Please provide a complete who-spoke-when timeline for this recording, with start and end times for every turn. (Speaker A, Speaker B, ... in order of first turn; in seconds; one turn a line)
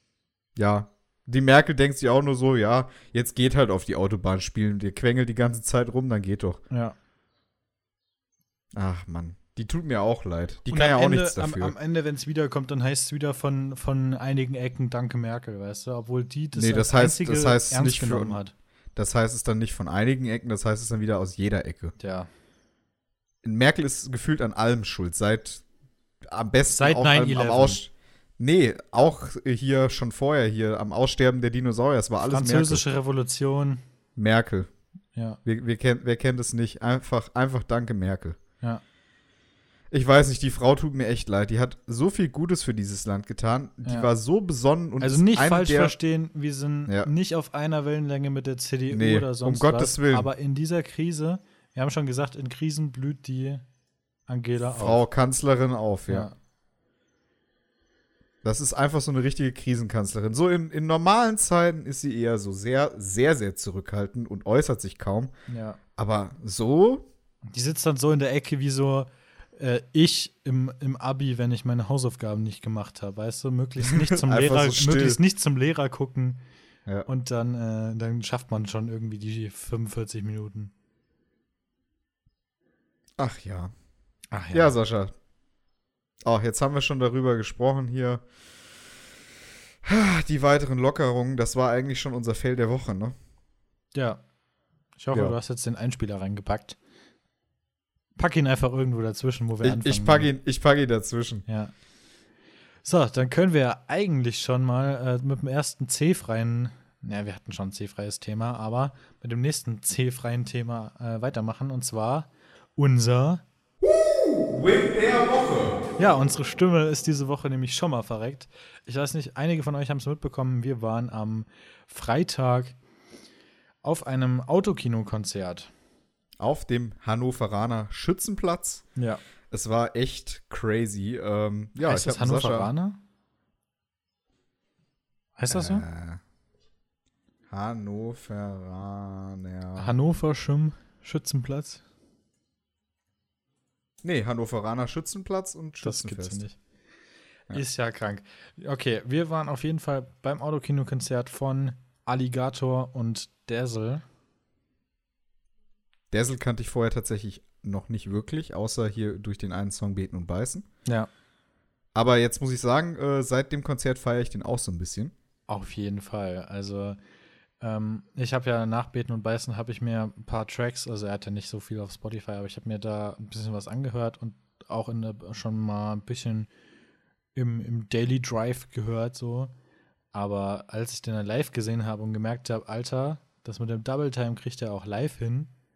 Speaker A: 0.6-6.6
Speaker A: 8.7-11.7
Speaker B: 10.7-18.5
Speaker A: 16.6-18.4
Speaker A: 18.9-21.9
Speaker B: 22.0-22.3
Speaker A: 23.4-25.6
Speaker A: 26.2-32.8
Speaker B: 26.7-27.8
Speaker B: 32.3-33.8
Speaker A: 34.1-34.7
Speaker A: 35.4-38.4
Speaker A: 39.9-45.9
Speaker B: 43.8-44.1
Speaker B: 45.0-53.6
Speaker A: 48.9-50.3
Speaker B: 54.3-55.0
Speaker A: 54.7-56.3
Speaker B: 56.1-56.3
Speaker A: 58.4-65.3
Speaker B: 65.5-65.8
Speaker A: 66.0-67.0
Speaker B: 67.5-76.4
Speaker A: 73.8-75.2
Speaker B: 77.1-80.7
Speaker A: 83.2-83.7
Speaker B: 84.3-84.7
Speaker A: 84.5-85.1
Speaker A: 86.2-88.2
Speaker A: 89.8-93.1
Speaker B: 93.9-94.2
Speaker B: 95.0-96.8
Speaker B: 98.2-100.3
Speaker A: 99.6-101.4
Speaker B: 101.5-101.7
Speaker B: 102.8-113.4
Speaker A: 113.8-115.8
Speaker B: 116.0-122.8
Speaker B: 123.8-125.7
Speaker A: 126.4-128.8
Speaker B: 128.9-129.2
Speaker A: 129.5-132.7
Speaker B: 131.8-133.0
Speaker B: 135.4-135.8
Speaker A: 135.5-136.2
Speaker A: 137.5-139.9
Speaker B: 139.8-141.8
Speaker A: 144.0-146.4
Speaker B: 145.8-146.6
Speaker B: 147.5-154.0
Speaker A: 156.1-160.6
Speaker A: 161.9-165.1
Speaker B: 165.5-167.0
Speaker B: 167.6-176.5
Speaker B: 177.3-179.5
Speaker B: 180.1-185.5